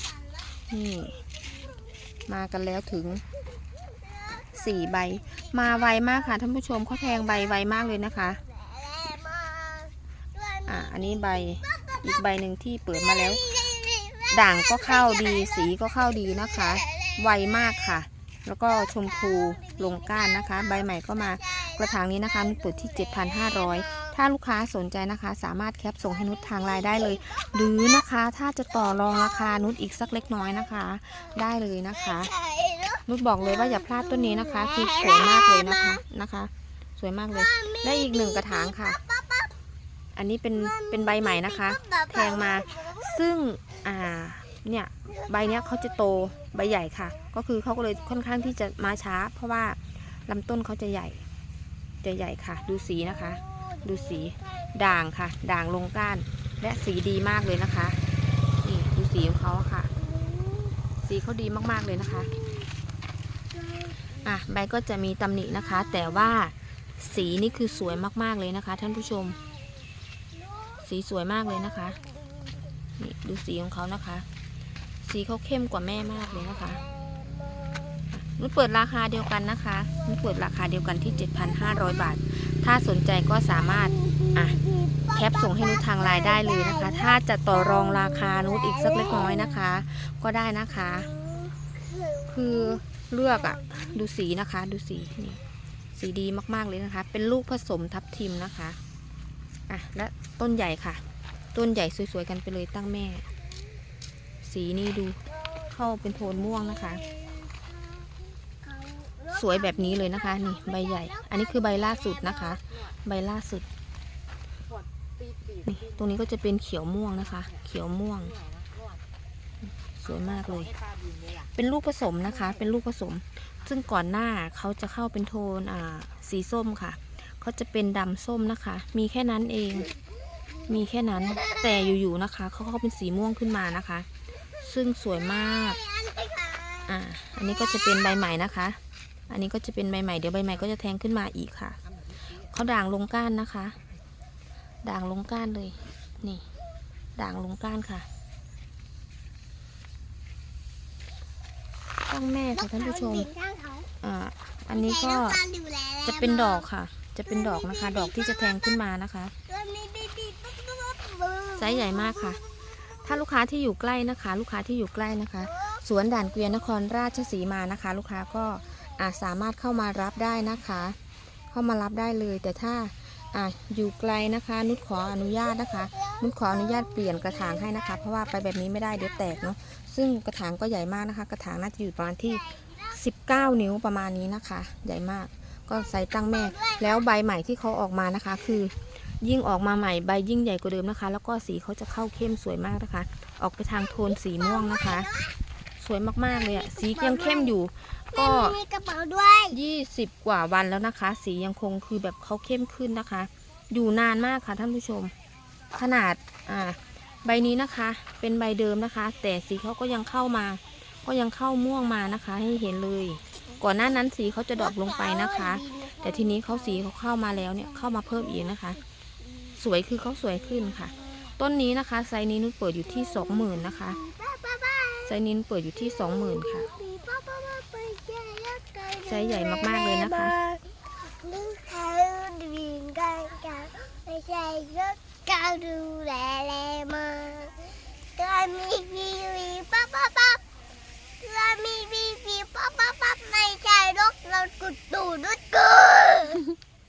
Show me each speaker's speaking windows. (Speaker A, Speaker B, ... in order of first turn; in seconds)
Speaker A: 0.7-1.2, 2.3-3.2, 4.5-8.4, 10.7-13.7, 14.3-32.3, 33.1-39.0, 40.1-51.2, 52.0-58.0, 58.6-59.9, 61.0-62.3, 64.2-69.4, 70.8-72.0, 73.0-74.3, 75.0-76.8, 78.1-91.1, 92.3-95.4, 96.0-98.8, 99.7-101.0, 101.5-103.3, 104.4-105.2, 105.7-107.0, 109.3-113.7, 115.7-118.4, 120.0-120.8, 121.5-129.9, 130.7-134.1, 134.6-135.8, 136.9-141.8, 142.5-143.8, 144.8-146.5, 147.2-148.1, 152.1-153.3, 154.0-155.4, 156.0-159.3, 161.6-162.4, 163.0-171.0, 171.5-195.1, 195.8-198.6, 199.5-205.1, 205.7-218.8, 219.6-224.0, 225.1-226.7, 229.0-230.4
Speaker B: 8.5-9.9, 13.6-14.2, 32.3-33.0, 34.4-35.4, 37.5-39.5, 40.7-42.9, 60.3-60.7, 63.6-64.2, 76.8-78.0, 83.9-86.7, 88.0-88.7, 91.1-92.3, 107.5-108.1, 108.6-111.8, 135.8-136.8, 152.6-153.9, 154.7-156.6, 159.5-161.6, 195.0-195.3, 196.6-197.5, 198.3-199.5, 214.8-216.5, 223.9-225.1, 226.6-240.4, 241.2-246.4